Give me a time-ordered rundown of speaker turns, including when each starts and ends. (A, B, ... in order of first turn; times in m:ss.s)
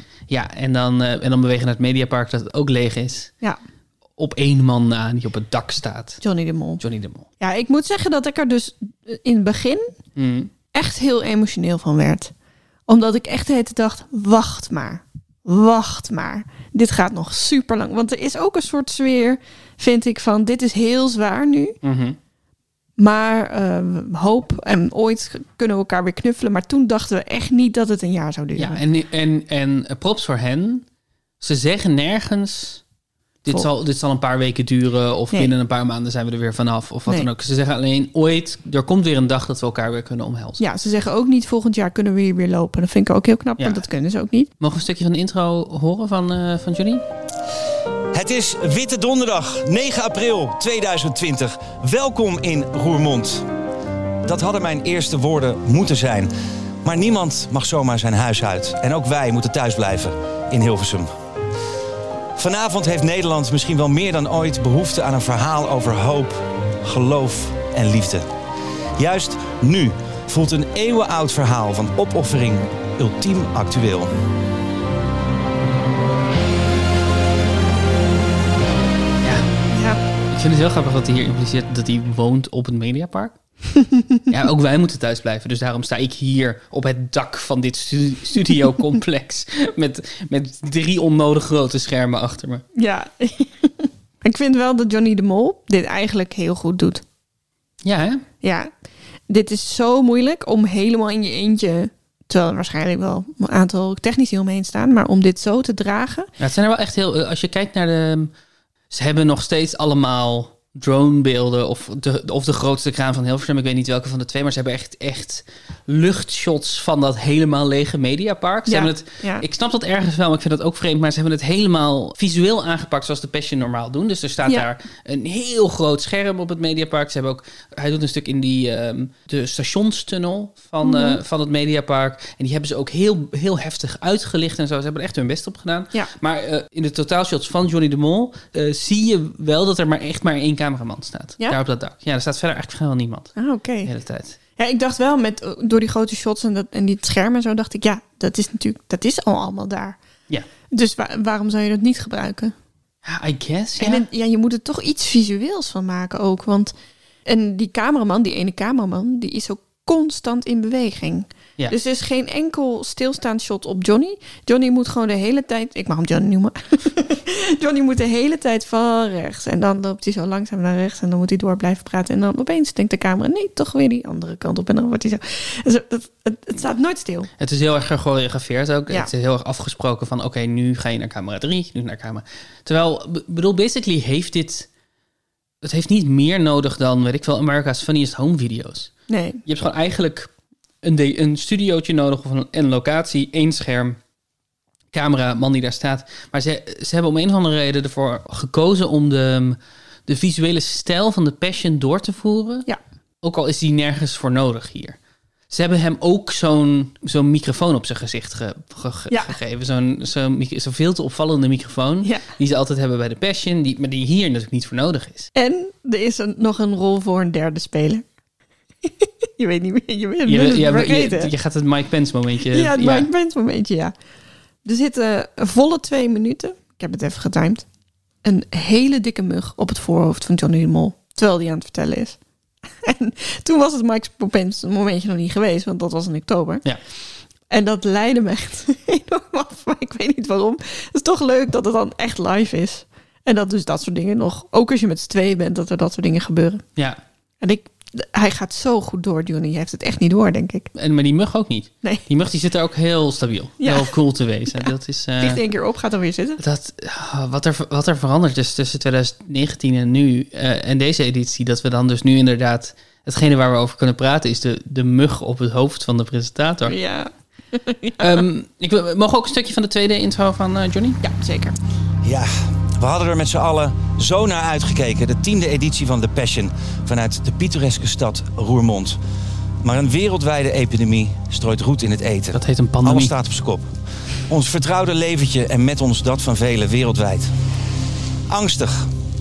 0:00.3-0:03.3 A
0:04.2-0:06.2 A
0:06.2-0:06.8 B
0:06.8-0:07.3 A
0:07.4-0:09.9 B
0:10.2-0:10.5 A
0:10.7-0:12.3 B
0:12.9-0:21.8 B
0:21.8-0:22.2 A
0:23.0-0:28.8 B
0:28.6-0:30.8 A
0:31.4-0:32.8 A
0:33.4-0:40.6 A
0:40.6-0:44.5 B
0:43.6-0:43.8 A
0:44.6-0:47.0 A
0:48.1-0:53.5 C
0:54.2-1:01.1 C
1:02.4-1:08.3 C
1:09.0-1:14.1 C
1:19.2-1:19.5 A
1:19.7-1:20.0 B
1:20.3-1:23.4 A
1:24.3-1:32.6 A
1:32.7-1:37.0 B
1:37.8-1:38.2 A
1:38.4-1:38.7 B
1:39.3-1:46.3 B
1:46.4-1:48.3 A
1:48.9-2:24.4 A
1:58.7-1:59.4 B
2:10.8-2:11.2 B
2:23.4-2:23.9 B
2:24.6-2:30.0 B
2:30.7-2:32.5 B
2:33.0-2:34.0 A
2:33.8-2:36.7 B
2:37.2-2:57.3 B
2:57.4-3:04.7 A
3:05.6-3:08.9 A
3:09.1-3:09.4 B
3:09.4-3:10.3 A
3:10.8-3:14.0 A
3:14.9-3:22.7 A
3:23.2-3:25.0 A
3:25.5-3:35.3 A
3:29.1-3:29.3 B
3:35.3-3:38.0 B
3:38.8-3:41.3 B
3:40.2-3:43.1 A
3:42.5-3:43.9 B
3:44.6-3:47.6 B
3:48.2-3:52.2 B
3:52.8-3:56.6 B
3:57.5-4:06.6 B
4:07.4-4:10.7 B
4:10.7-4:15.4 A
4:13.6-4:13.9 B
4:14.5-4:16.4 B
4:16.4-4:26.8 A
4:26.7-4:28.2 B
4:28.0-4:31.0 A
4:31.0-4:31.6 B
4:32.0-4:39.0 C
4:39.6-4:43.7 C
4:42.3-4:43.1 A
4:44.3-4:47.3 C
4:48.3-4:48.9 C